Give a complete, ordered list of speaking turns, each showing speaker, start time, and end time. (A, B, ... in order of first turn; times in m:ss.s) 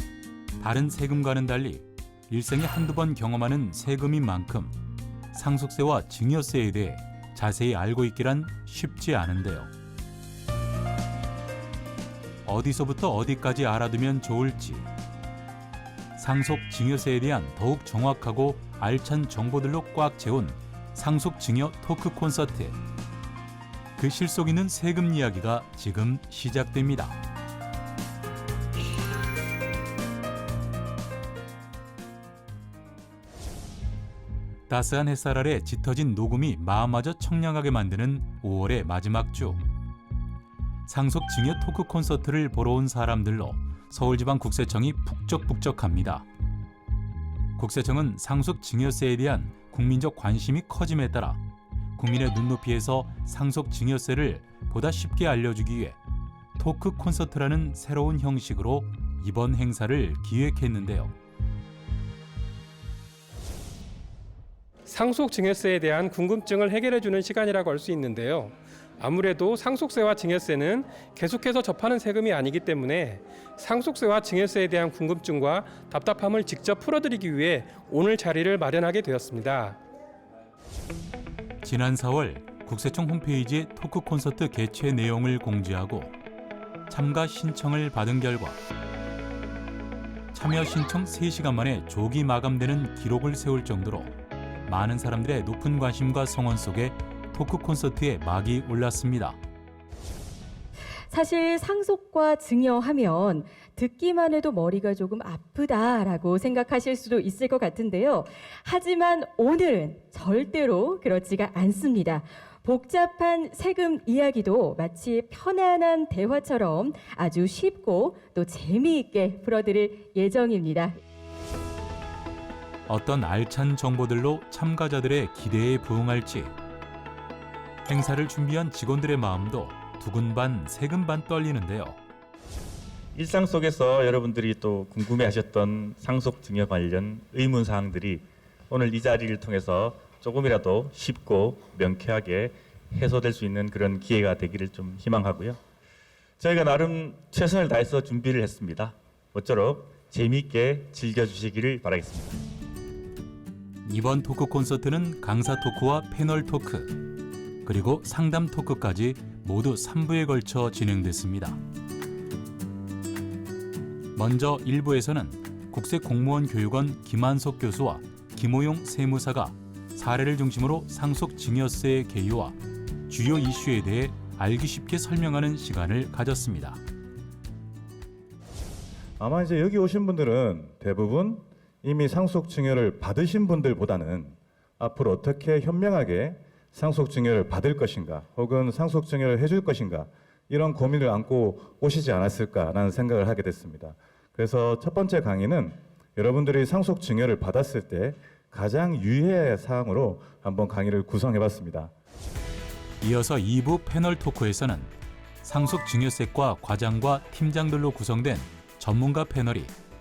0:00.6-0:04.8 A
0:05.3-0:09.7 A
0:12.4-0:14.9 A
0:16.2-0:22.8 A
0:24.0-0:27.2 A
0:34.7-0:39.6 A
0:40.9-0:46.3 A
0:47.6-0:51.4 A
0:52.0-0:56.0 A
0:56.6-1:01.1 A
1:04.9-1:19.8 B
1:21.6-1:26.1 A
1:26.9-1:28.6 A
1:30.3-1:34.1 A
1:34.7-1:39.4 A
1:41.1-2:01.0 C
2:02.9-2:06.5 A
2:07.9-2:12.0 A
2:13.1-2:25.6 D
2:26.4-2:32.4 D
2:33.8-2:37.0 A
2:37.6-2:41.6 A
2:44.2-2:52.6 A
2:53.1-2:56.8 A
2:59.2-3:21.9 E
3:23.0-3:24.9 A
3:25.4-3:29.7 A